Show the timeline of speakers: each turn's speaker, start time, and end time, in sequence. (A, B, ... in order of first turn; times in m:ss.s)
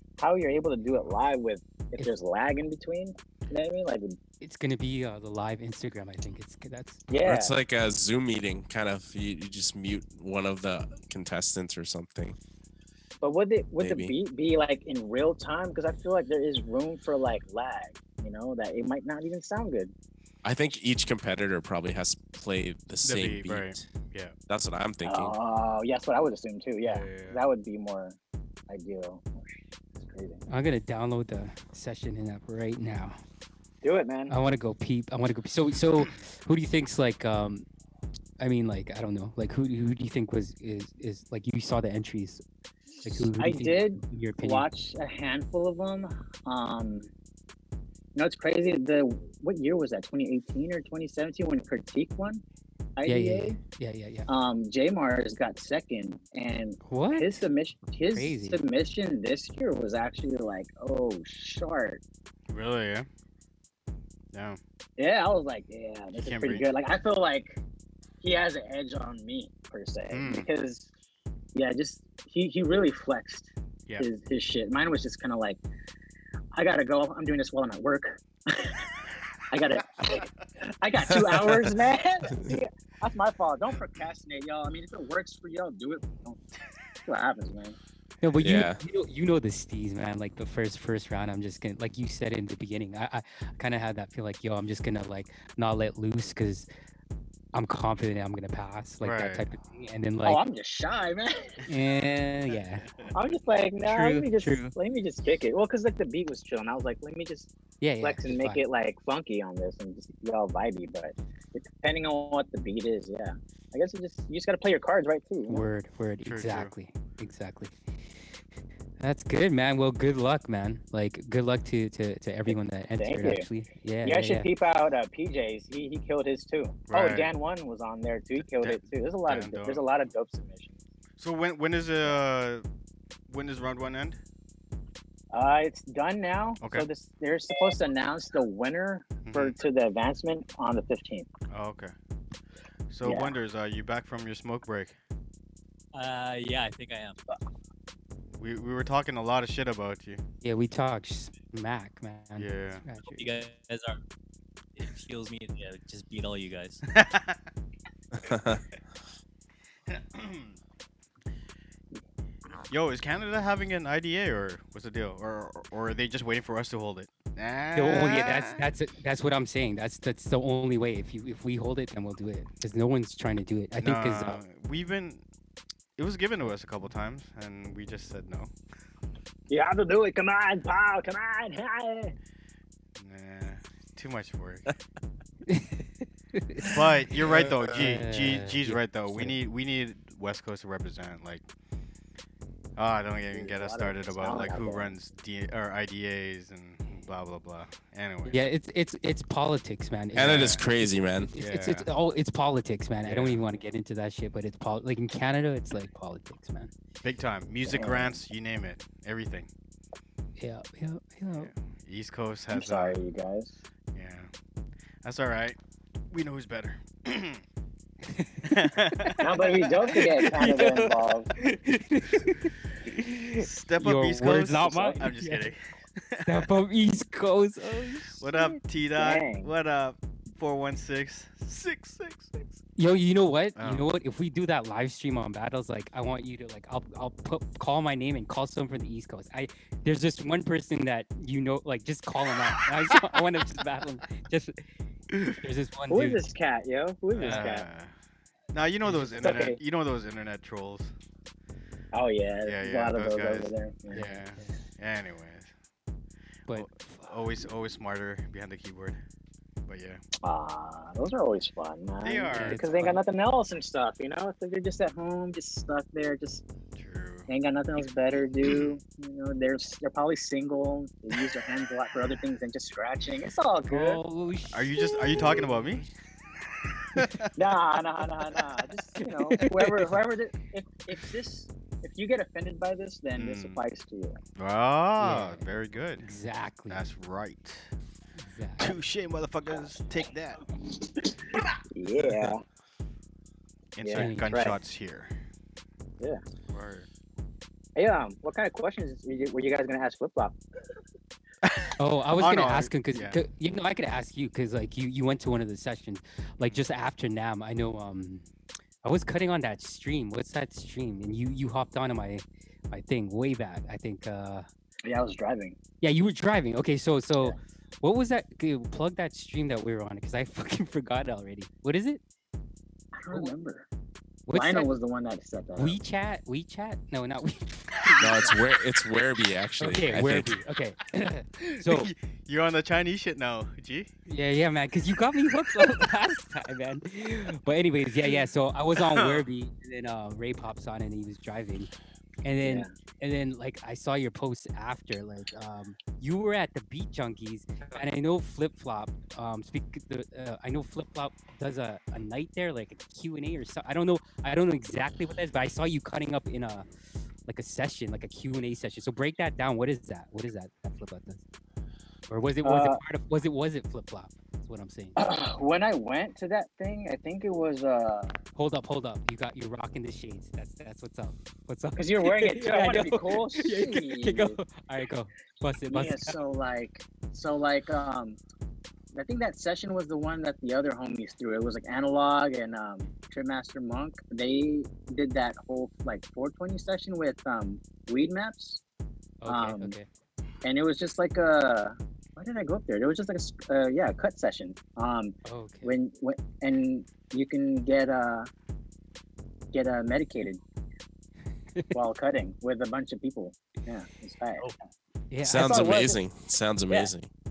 0:00.2-0:04.2 A
0:04.4-0:07.0 B
0:07.1-0:07.6 A
0:07.2-0:12.4 C
0:13.2-0:19.9 A
0:13.8-0:14.1 C
0:20.4-0:23.9 C
0:23.0-0:24.3 D
0:24.5-0:25.3 C
0:25.0-0:28.2 A
0:26.8-0:27.4 D
0:28.7-0:30.4 A
0:30.5-0:33.2 B
0:33.8-0:34.4 A
0:34.3-0:37.7 B
0:38.4-0:42.4 B
0:43.0-0:44.7 B
0:43.4-0:47.1 A
0:48.2-0:52.4 A
0:53.0-0:53.6 A
0:53.1-0:54.3 B
0:54.3-1:02.0 A
0:56.8-0:57.4 B
0:58.1-0:58.6 B
1:02.5-1:03.1 D
1:04.3-1:04.6 D
1:05.0-1:07.6 A
1:06.2-1:06.7 D
1:08.2-1:10.9 A
1:10.1-1:10.5 D
1:11.5-1:15.6 A
1:16.6-1:18.8 A
1:19.5-1:26.4 A
1:21.0-1:21.8 C
1:27.0-1:27.8 A
1:28.2-1:36.7 B
1:28.4-1:28.8 C
1:37.5-1:40.4 B
1:39.0-1:39.5 D
1:40.2-1:41.6 A
1:41.7-1:42.9 B
1:42.5-1:43.1 D
1:43.1-1:55.6 A
1:43.8-1:44.7 B
1:47.8-1:48.6 B
1:55.5-1:57.8 B
1:56.2-1:56.7 D
1:59.0-2:04.5 B
2:02.5-2:03.5 A
2:04.0-2:10.8 A
2:06.9-2:07.3 D
2:08.4-2:09.8 D
2:11.2-2:12.7 D
2:13.3-2:14.2 D
2:15.3-2:21.3 A
2:16.6-2:16.9 D
2:19.2-2:19.6 D
2:21.5-2:21.9 D
2:22.9-2:25.0 D
2:23.0-2:23.4 A
2:25.9-2:27.2 E
2:28.3-2:30.2 D
2:30.4-2:33.5 B
2:32.4-2:32.8 D
2:33.1-2:34.0 E
2:34.8-2:36.8 E
2:36.9-2:37.4 D
2:38.2-2:38.6 C
2:39.9-2:40.6 D
2:42.7-2:48.7 D
2:47.8-2:54.4 B
2:53.8-2:55.2 D
2:56.0-2:58.5 D
2:59.5-3:02.2 A
3:03.0-3:04.7 D
3:05.5-3:06.8 B
3:06.6-3:11.4 D
3:07.6-3:09.4 B
3:12.8-3:18.4 D
3:13.3-3:14.9 A
3:18.3-3:26.7 B
3:20.2-3:21.3 C
3:20.3-3:20.6 D
3:21.4-3:21.9 D
3:23.0-3:23.4 D
3:27.0-3:29.5 D
3:27.7-3:28.2 A
3:30.4-3:31.5 B
3:31.3-3:33.0 D
3:32.5-3:33.6 A
3:33.9-3:34.3 D
3:35.0-3:35.6 D
3:36.1-3:37.4 D
3:38.1-3:39.2 B
3:38.4-3:40.0 D
3:39.2-3:41.3 A
3:39.9-3:45.5 B
3:43.4-3:46.5 D
3:44.7-3:45.0 A
3:46.2-3:48.3 B
3:48.2-3:52.6 D
3:48.3-3:49.5 A
3:52.8-4:04.7 B
3:53.6-3:53.9 D
4:05.3-4:06.3 B
4:05.9-4:07.7 A
4:07.1-4:07.5 B
4:07.2-4:07.9 D
4:08.5-4:10.9 D
4:08.8-4:09.2 B
4:09.2-4:09.6 A
4:11.9-4:14.0 A
4:12.4-4:15.5 D
4:13.9-4:14.6 B
4:16.5-4:17.2 B
4:16.5-4:19.0 D
4:19.7-4:20.0 D
4:20.2-4:26.4 A
4:22.0-4:22.9 D
4:22.3-4:23.0 B
4:26.8-4:27.3 D
4:27.3-4:34.0 A
4:28.5-4:28.7 D
4:33.7-4:35.8 B
4:34.5-4:35.9 D
4:35.1-4:35.5 A
4:36.6-4:37.3 D
4:37.4-4:44.2 A
4:39.0-4:39.9 B
4:43.2-4:43.6 D
4:44.4-4:46.1 D
4:45.0-4:45.5 B
4:46.0-4:46.8 B
4:46.7-4:47.7 D
4:48.2-4:48.8 B
4:48.6-4:50.4 D
4:50.8-4:52.4 A
4:53.8-4:55.1 D
4:53.8-4:54.6 A
4:53.9-4:54.6 B
4:56.5-4:56.9 D
4:57.8-5:00.4 A
5:01.4-5:03.2 D
5:01.8-5:08.3 B
5:08.8-5:14.5 B
5:14.8-5:15.6 A
5:15.8-5:22.0 B
5:22.9-5:23.7 A
5:24.3-5:24.7 B
5:24.3-5:25.8 A
5:25.6-5:28.0 B
5:28.0-5:30.3 C
5:29.6-5:31.9 B
5:31.6-5:33.9 D
5:34.1-5:41.7 B
5:38.8-5:39.2 D
5:42.2-5:56.7 B
5:42.4-5:42.7 A
5:57.3-6:01.2 B
6:02.1-6:05.0 B
6:02.4-6:02.8 A
6:05.0-6:08.2 A
6:08.4-6:16.2 B
6:11.8-6:14.4 A
6:15.7-6:18.2 A
6:18.9-6:28.6 A
6:29.2-6:29.9 B
6:29.3-6:29.8 A
6:30.4-6:38.3 A
6:35.2-6:35.8 B
6:39.5-6:40.4 A
6:41.7-6:44.5 A
6:45.1-6:45.9 B
6:45.2-6:47.1 C
6:45.4-6:46.0 A